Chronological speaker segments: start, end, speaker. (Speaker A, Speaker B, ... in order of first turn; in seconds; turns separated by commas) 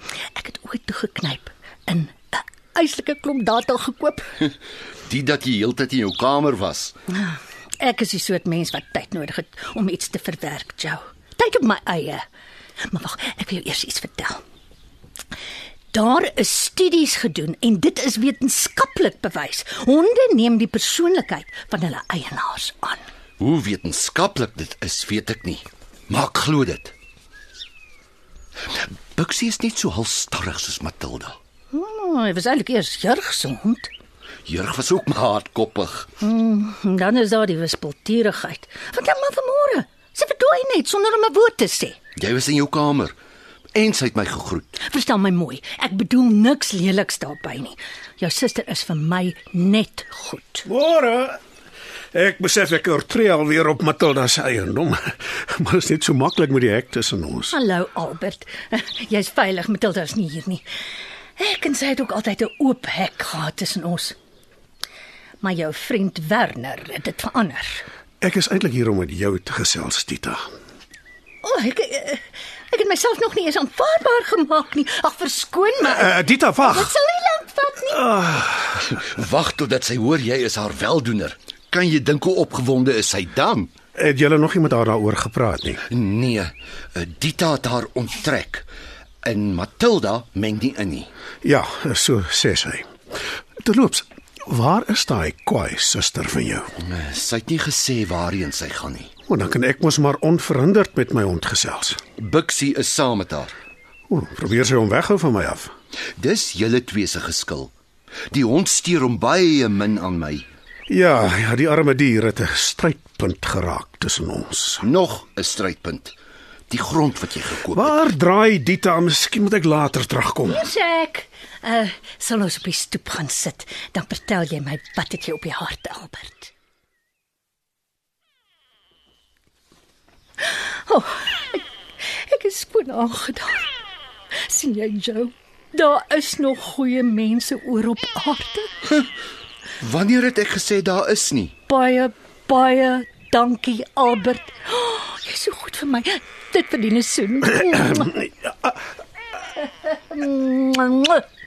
Speaker A: 0.3-4.4, Speaker B: 5.0-7.0, Speaker A: 7.1-12.2, Speaker A: 12.8-14.4, Speaker A: 15.9-23.0, Speaker B: 23.4-26.9, Speaker B: 29.1-31.4, Speaker A: 31.7-33.9, Speaker B: 34.5-36.1, Speaker A: 36.2-42.0, Speaker B: 42.2-43.2, Speaker B: 43.8-44.8, Speaker A: 44.8-50.7, Speaker C: 50.7-51.4, Speaker C: 52.1-57.5, Speaker A: 57.5-60.6, Speaker A: 61.4-64.2, Speaker A: 65.4-67.8, Speaker C: 68.2-70.5, Speaker A: 71.4-78.1, Speaker C: 75.8-76.9, Speaker C: 77.9-78.9, Speaker B: 78.9-83.7, Speaker C: 84.0-85.8, Speaker B: 85.9-88.7, Speaker B: 89.2-91.1, Speaker C: 91.4-92.9, Speaker C: 93.6-96.7, Speaker B: 96.8-99.1, Speaker C: 99.3-102.0, Speaker B: 102.2-103.5, Speaker C: 104.1-105.7, Speaker B: 106.2-107.7, Speaker B: 108.3-110.5, Speaker C: 110.9-114.8, Speaker B: 114.8-116.1, Speaker B: 116.7-118.0, Speaker C: 117.6-120.7, Speaker A: 120.5-126.5, Speaker A: 130.4-133.7, Speaker A: 134.4-138.8, Speaker B: 139.8-141.5, Speaker A: 141.7-148.2, Speaker A: 149.6-151.2